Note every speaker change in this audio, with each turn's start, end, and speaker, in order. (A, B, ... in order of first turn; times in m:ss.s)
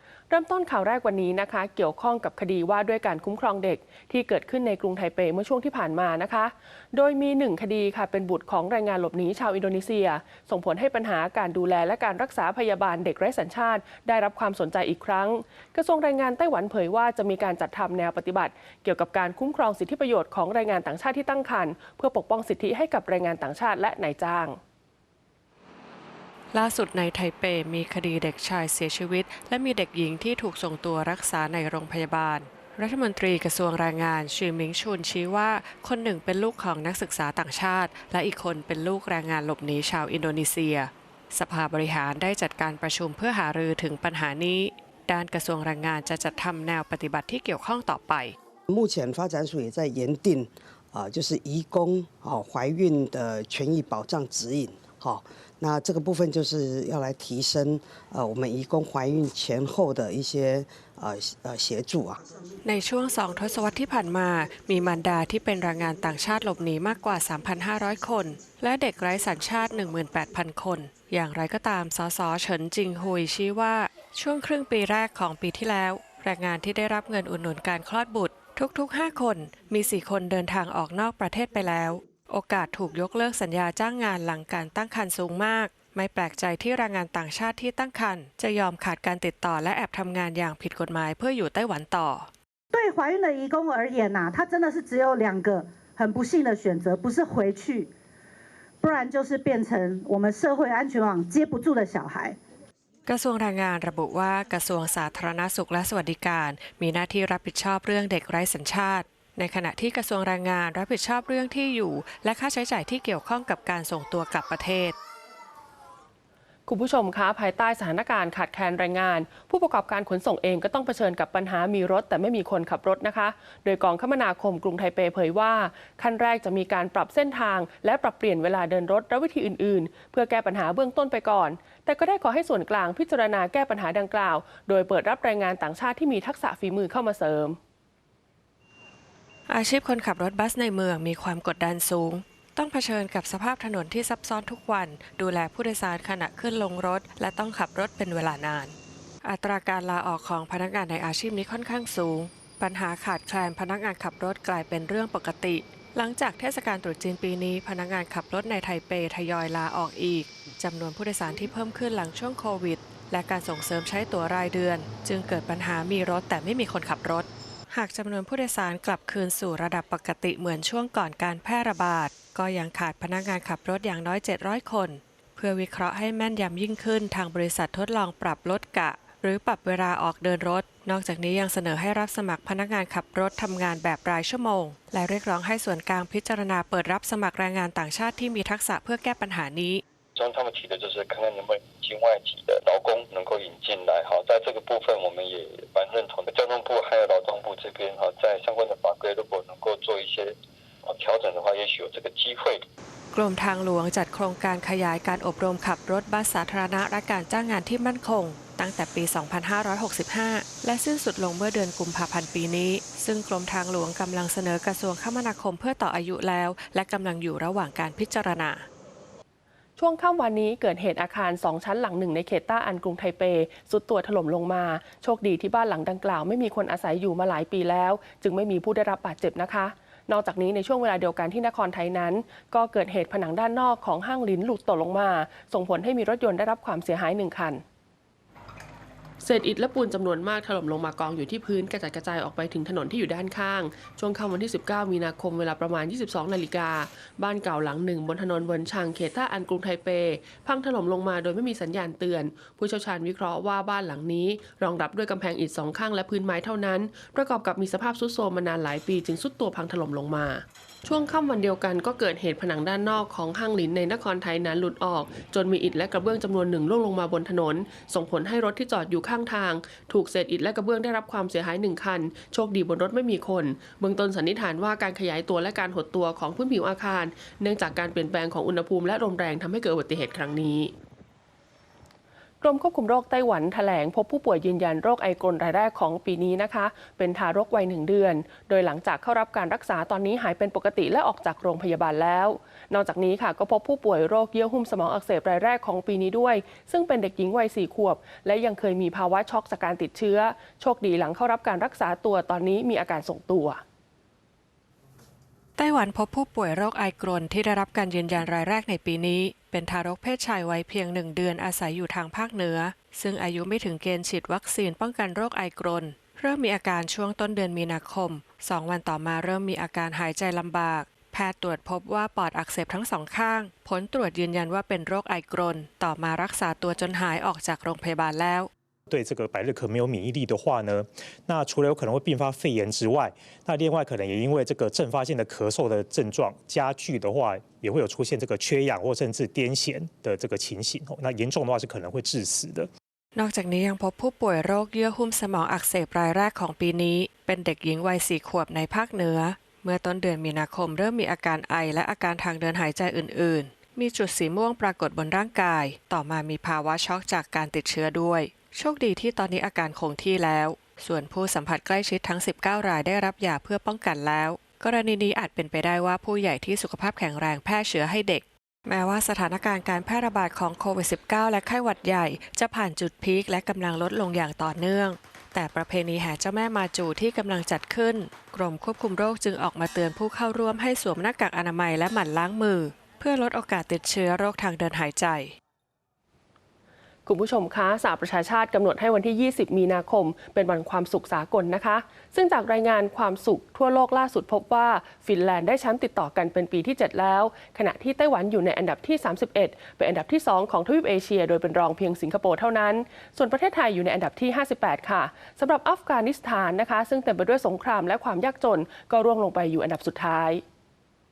0:00.3-0:24.6 A
0:26.5-0:48.4 B
0:48.7-1:02.2 C
1:02.6-1:32.3 B
1:32.7-1:37.9 D
1:38.8-1:42.4 D
1:43.1-1:55.0 B
1:56.7-2:17.6 A
2:19.5-3:09.8 B
3:10.2-3:22.7 E
3:23.1-3:38.7 B
3:39.8-3:57.6 A
3:59.2-4:40.7 A
4:42.4-5:03.6 A
5:05.6-5:28.5 B
5:28.9-5:42.7 F
5:43.2-6:25.4 B
6:27.1-6:50.4 A